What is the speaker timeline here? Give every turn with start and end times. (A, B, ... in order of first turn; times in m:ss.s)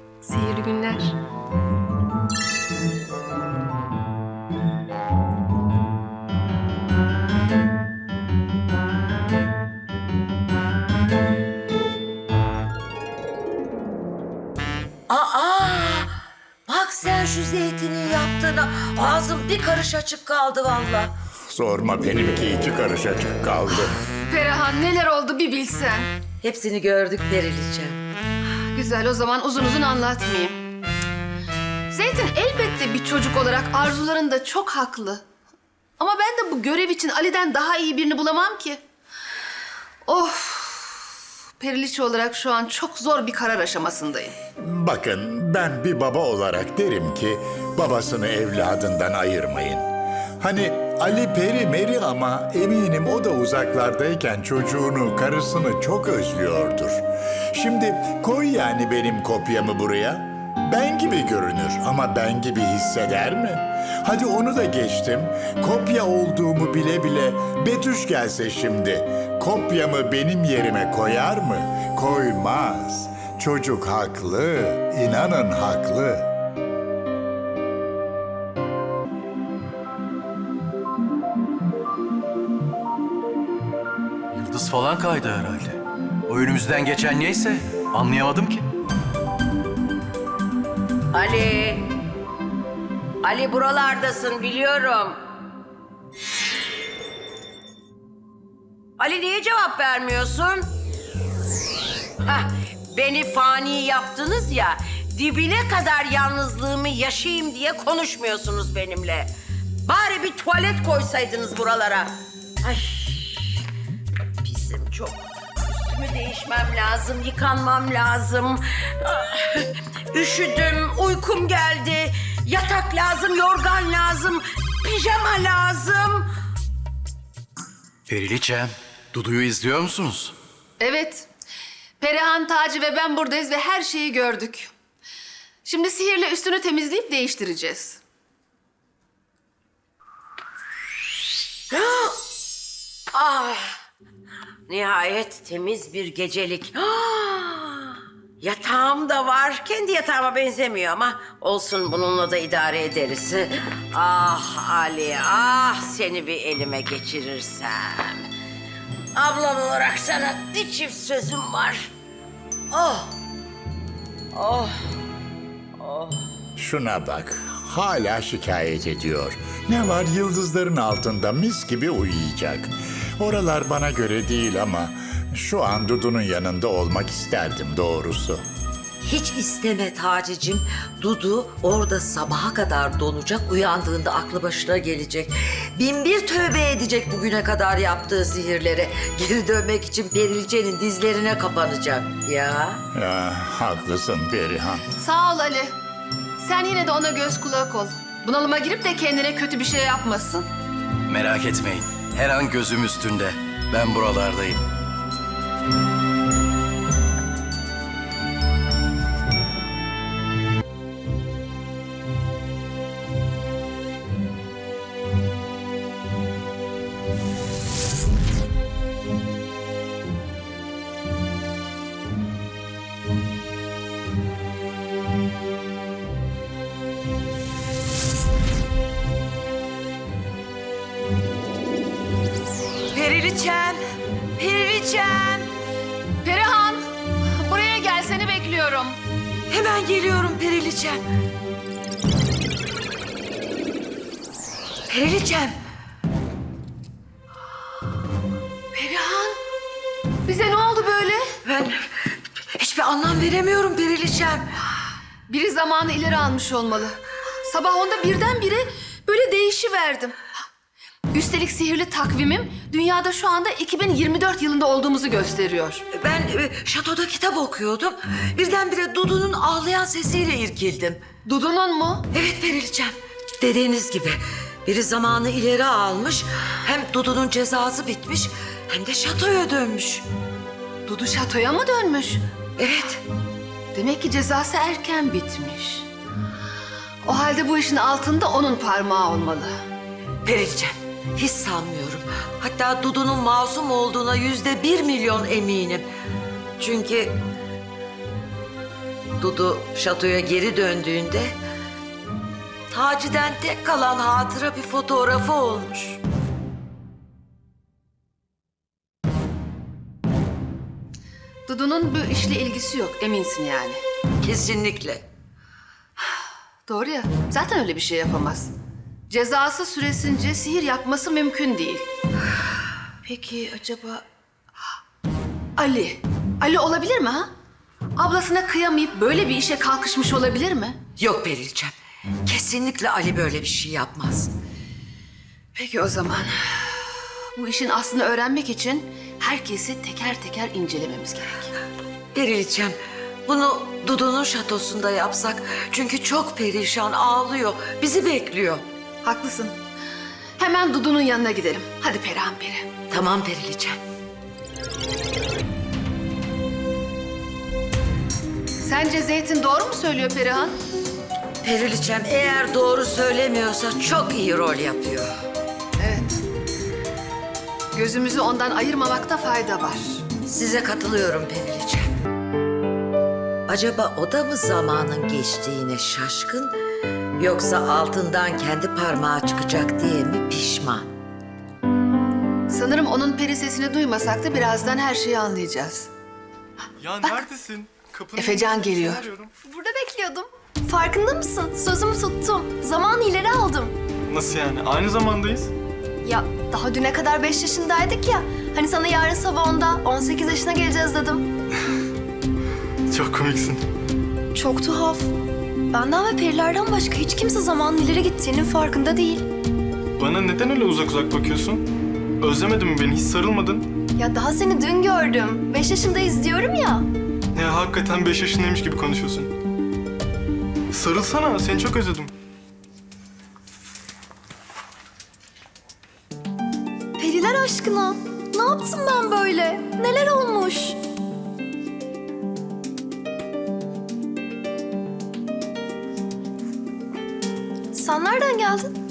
0:00.2-0:01.0 A
0:15.1-0:16.1 B
0:16.7-0:21.1 B
0:21.5-0:23.9 C
0:24.3-0:26.1 D
0:26.4-0:28.0 B
0:28.7-0:30.6 D
0:31.9-0:35.2 D
0:36.0-0:38.8 D
0:40.0-0:44.3 D
0:44.6-0:49.8 C
0:50.4-1:16.3 C
1:24.3-1:28.6 E
1:31.1-1:31.9 F
1:33.2-1:35.2 F
1:39.0-1:40.7 F
1:42.2-1:49.3 F
1:49.8-1:53.5 F
1:54.4-2:06.3 F
2:08.1-2:10.3 E
2:10.8-2:11.3 D
2:12.0-2:14.7 D
2:15.6-2:18.0 D
2:21.7-2:22.2 F
2:23.1-2:23.8 F
2:24.7-2:38.2 F
2:39.1-2:41.9 F
2:42.7-2:43.1 F
2:44.3-2:44.8 F
2:45.8-2:46.2 F
2:46.6-2:58.4 C
2:59.0-3:12.8 B
3:12.9-3:14.8 C
3:15.0-3:15.7 D
3:16.4-3:20.5 D
3:21.1-3:24.6 E
3:52.9-3:53.8 B
3:54.4-3:55.5 B
3:56.2-3:56.8 D
3:57.4-3:59.0 D
3:59.5-4:01.0 B
4:04.9-4:05.6 B
4:08.7-4:09.4 D
4:10.2-4:11.2 D
4:11.4-4:14.5 B
4:15.3-4:20.2 D
4:21.1-4:25.8 D
4:25.9-4:31.0 B
4:31.2-4:32.1 D
4:32.1-4:40.0 B
4:40.8-4:42.2 D
4:42.6-4:43.0 B
4:43.7-4:45.9 D
4:47.0-4:49.5 D
4:50.2-4:55.9 B
4:56.6-4:57.2 B
4:59.2-5:01.4 B
5:02.7-5:06.0 B
5:11.5-5:13.8 D
5:14.2-5:15.0 B
5:16.1-5:18.5 D
5:19.1-5:21.9 D
5:23.0-5:24.0 D
5:25.6-5:27.3 D
5:28.0-5:30.8 D
5:31.0-5:34.3 B
5:35.5-5:41.5 D
5:42.1-5:48.6 B
5:49.0-5:49.6 D
5:50.4-5:52.7 D
5:52.9-5:53.8 B
5:58.6-6:00.5 D
6:01.4-6:05.0 B
6:05.8-6:06.1 D
6:07.7-6:10.0 D
6:10.2-6:11.9 B
6:13.5-6:16.5 B
6:17.2-6:20.9 B
6:22.5-6:25.9 D
6:26.8-6:29.3 G
6:28.2-6:29.0 D
6:29.4-6:33.7 A
6:34.1-6:35.5 G
6:36.0-6:41.3 A
6:42.9-6:43.6 G
6:44.3-6:45.1 A
6:45.7-6:49.2 A
6:50.0-6:51.6 G
6:52.2-6:53.7 G
6:54.0-6:56.9 A
6:57.3-6:59.3 G
7:00.7-7:02.1 G
7:07.0-7:10.8 A
7:17.7-7:18.7 A